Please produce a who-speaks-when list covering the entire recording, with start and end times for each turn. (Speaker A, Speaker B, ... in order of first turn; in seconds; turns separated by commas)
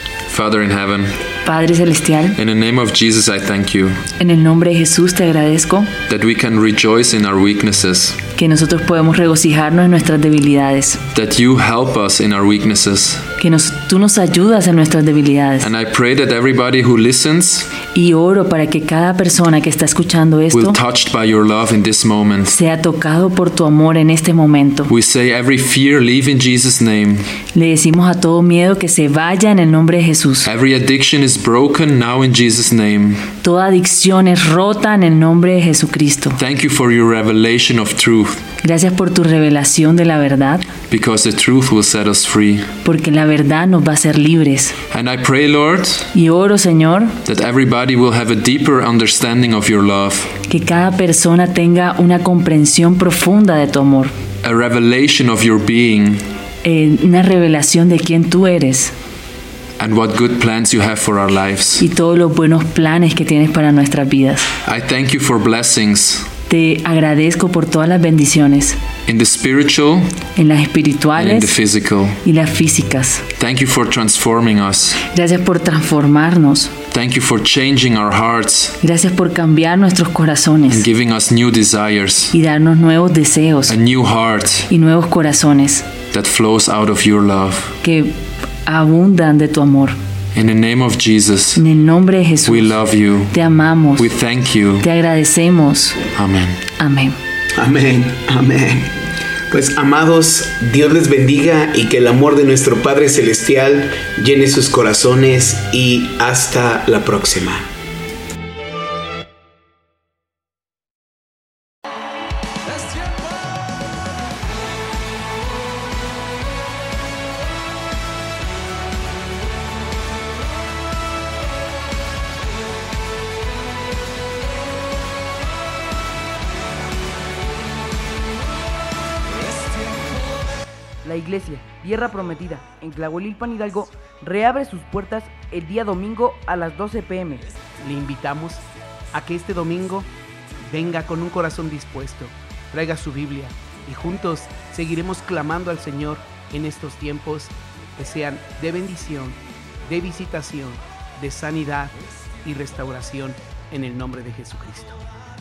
Speaker A: 0.3-1.2, Speaker B: 1.4-2.4, Speaker A: 2.4-4.0, Speaker B: 4.2-5.9, Speaker A: 6.1-8.2, Speaker B: 8.4-11.0, Speaker A: 11.2-13.2, Speaker B: 13.4-15.7, Speaker A: 15.6-17.7, Speaker B: 17.9-20.8, Speaker A: 20.5-22.6, Speaker B: 22.5-24.9, Speaker A: 24.9-27.3, Speaker B: 27.5-30.5, Speaker A: 30.5-33.3, Speaker B: 33.4-36.4, Speaker A: 36.4-38.5, Speaker B: 38.6-40.7, Speaker A: 40.9-42.7, Speaker B: 42.8-44.8, Speaker A: 44.9-46.1, Speaker B: 46.1-47.2, Speaker A: 47.2-50.3, Speaker B: 50.5-54.1, Speaker A: 54.4-56.2, Speaker B: 56.6-58.9, Speaker A: 59.8-61.8, Speaker B: 61.8-64.5, Speaker A: 64.7-66.3, Speaker B: 66.5-68.8, Speaker A: 69.1-70.1, Speaker B: 70.4-71.5, Speaker A: 71.2-72.2, Speaker B: 72.2-73.3, Speaker A: 73.4-75.0, Speaker B: 75.0-76.8, Speaker A: 76.9-78.8, Speaker B: 78.8-80.8, Speaker A: 80.7-82.3, Speaker B: 82.3-83.8, Speaker A: 83.7-84.7, Speaker B: 84.7-85.9, Speaker A: 86.1-87.7, Speaker B: 87.8-88.2, Speaker B: 88.7-90.0, Speaker A: 90.3-91.6, Speaker B: 91.6-92.8, Speaker A: 92.5-93.4, Speaker B: 93.3-94.1, Speaker A: 94.0-94.8, Speaker B: 94.8-96.0, Speaker A: 96.2-96.6, Speaker B: 96.8-97.2, Speaker C: 97.6-98.9, Speaker C: 99.5-107.7, Speaker D: 131.0-137.5, Speaker C: 137.8-140.1, Speaker C: 140.7-155.0